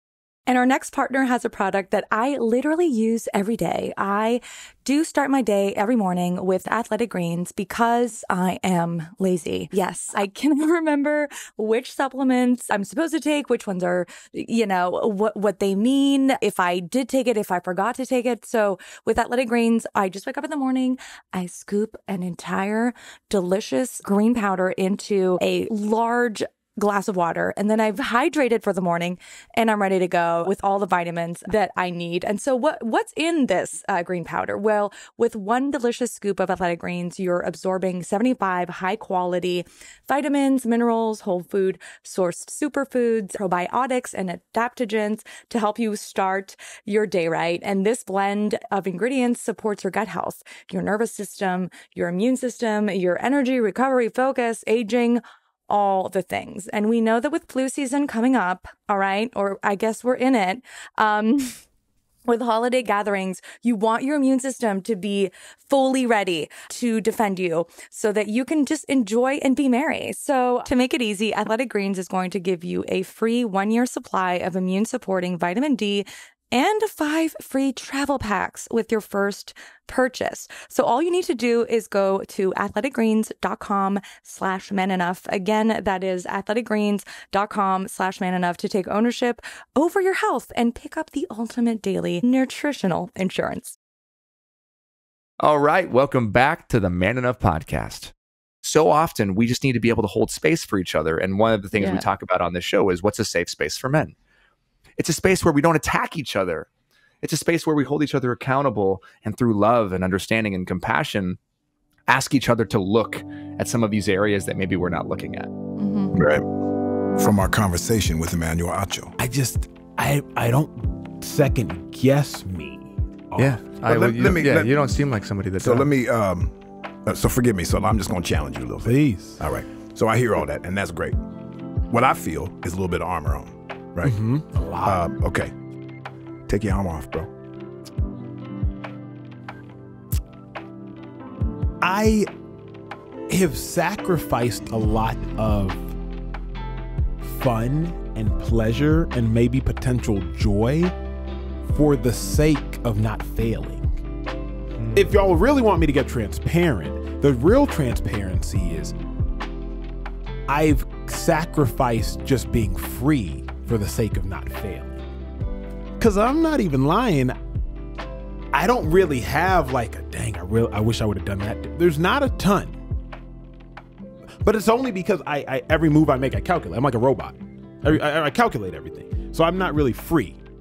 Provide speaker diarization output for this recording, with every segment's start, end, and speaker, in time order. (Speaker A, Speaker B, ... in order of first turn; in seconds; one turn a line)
Speaker A: 0.5-61.6
Speaker A: 62.3-93.8
Speaker B: 95.4-98.1
Speaker B: 98.6-104.2
Speaker A: 101.8-102.0
Speaker B: 105.0-106.7
Speaker B: 107.2-111.4
Speaker B: 112.1-115.5
Speaker A: 115.8-116.2
Speaker C: 116.1-116.4
Speaker C: 117.2-119.1
Speaker D: 119.2-123.7
Speaker B: 123.4-125.9
Speaker C: 123.8-124.8
Speaker C: 125.6-126.5
Speaker C: 127.1-131.2
Speaker D: 128.8-129.4
Speaker C: 131.9-134.2
Speaker D: 134.0-135.1
Speaker C: 134.8-135.5
Speaker C: 136.5-137.3
Speaker D: 141.8-142.3
Speaker D: 143.3-145.9
Speaker D: 147.2-150.9
Speaker D: 151.7-153.9
Speaker D: 154.9-158.9
Speaker D: 160.5-165.0
Speaker D: 166.0-167.4
Speaker D: 168.5-172.8
Speaker D: 174.4-180.4